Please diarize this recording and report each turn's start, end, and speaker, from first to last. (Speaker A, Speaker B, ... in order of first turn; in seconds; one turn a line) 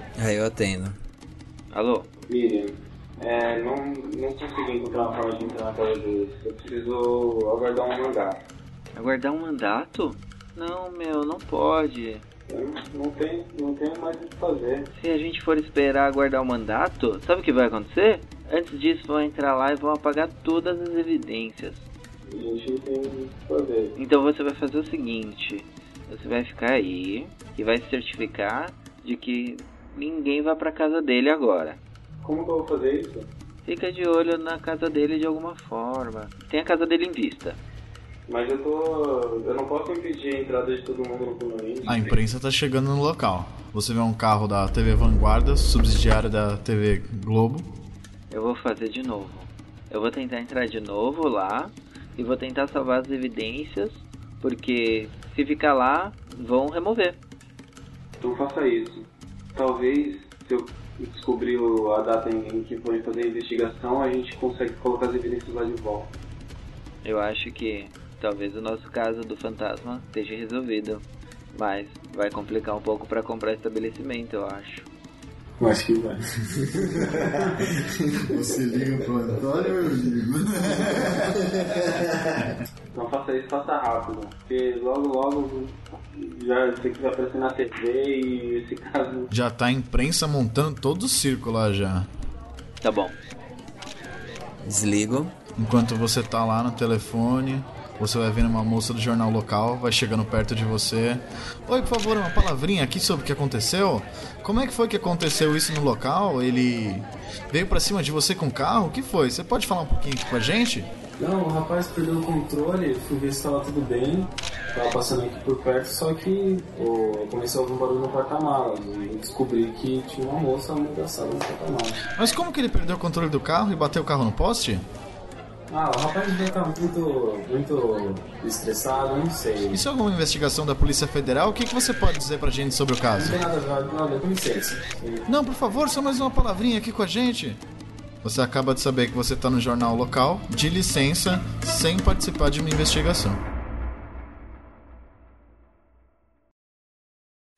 Speaker A: 0.1-1.0
Speaker A: 1.7-2.1
Speaker B: 2.3-8.4
Speaker A: 8.9-12.2
Speaker B: 12.5-14.9
Speaker A: 14.9-21.9
Speaker B: 22.2-24.0
Speaker A: 23.9-31.8
Speaker B: 32.2-33.3
Speaker A: 33.6-37.6
Speaker B: 38.3-42.2
Speaker C: 41.9-47.8
Speaker A: 48.3-57.2
Speaker B: 58.2-66.1
Speaker A: 67.0-74.9
Speaker B: 75.6-79.0
Speaker C: 78.2-81.4
Speaker B: 80.6-82.0
Speaker B: 82.9-89.3
Speaker C: 89.3-92.1
Speaker A: 92.8-93.2
Speaker A: 94.6-95.3
Speaker C: 95.6-110.9
Speaker B: 111.2-122.1
Speaker C: 122.2-124.8
Speaker B: 125.7-129.8
Speaker C: 129.7-133.4
Speaker B: 133.2-135.3
Speaker C: 135.3-137.6
Speaker C: 138.2-143.4